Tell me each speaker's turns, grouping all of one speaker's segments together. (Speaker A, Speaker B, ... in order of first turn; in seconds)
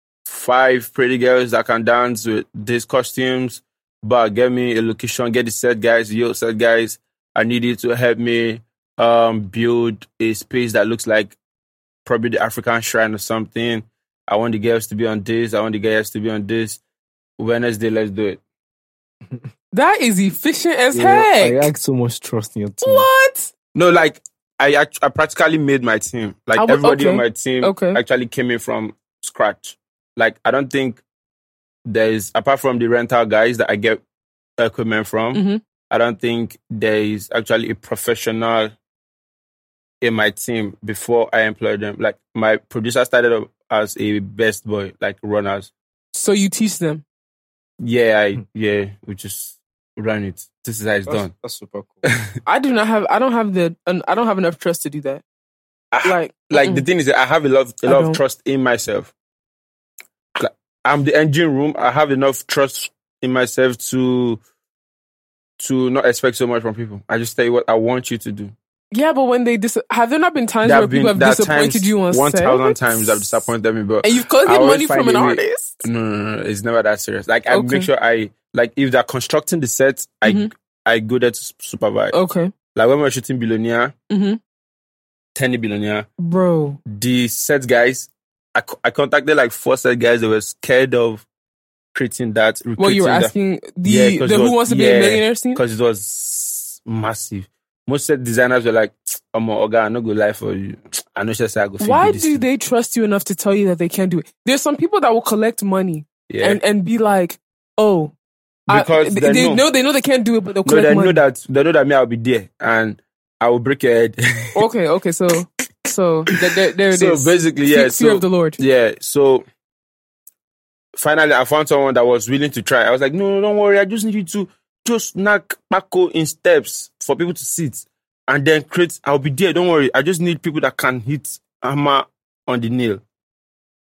Speaker A: 0.2-11.3, 12.0-16.8, 17.4-18.4, 23.7-31.0, 31.9-34.0, 34.6-38.7, 40.0-45.7, 47.8-51.3, 55.9-59.1, 60.4-64.4, 65.6-68.5, 70.6-82.1, 82.7-83.9, 85.3-86.1, 86.8-91.2, 91.9-93.3, 93.8-102.4, 106.3-106.6, 108.7-109.6, 110.6-114.6, 116.9-119.4, 121.0-133.0
Speaker B: 19.7-21.6, 22.8-23.5, 26.6-28.0, 35.3-35.6, 46.1-47.0, 52.5-55.2, 56.0-56.9, 57.9-58.2, 68.9-73.4, 74.0-75.7, 77.5-77.9, 80.2-80.5, 82.1-82.5, 84.1-84.4, 86.2-86.8, 92.8-95.6, 101.8-108.1, 108.7-111.2, 114.5-118.6
Speaker C: 20.9-23.1, 51.0-52.0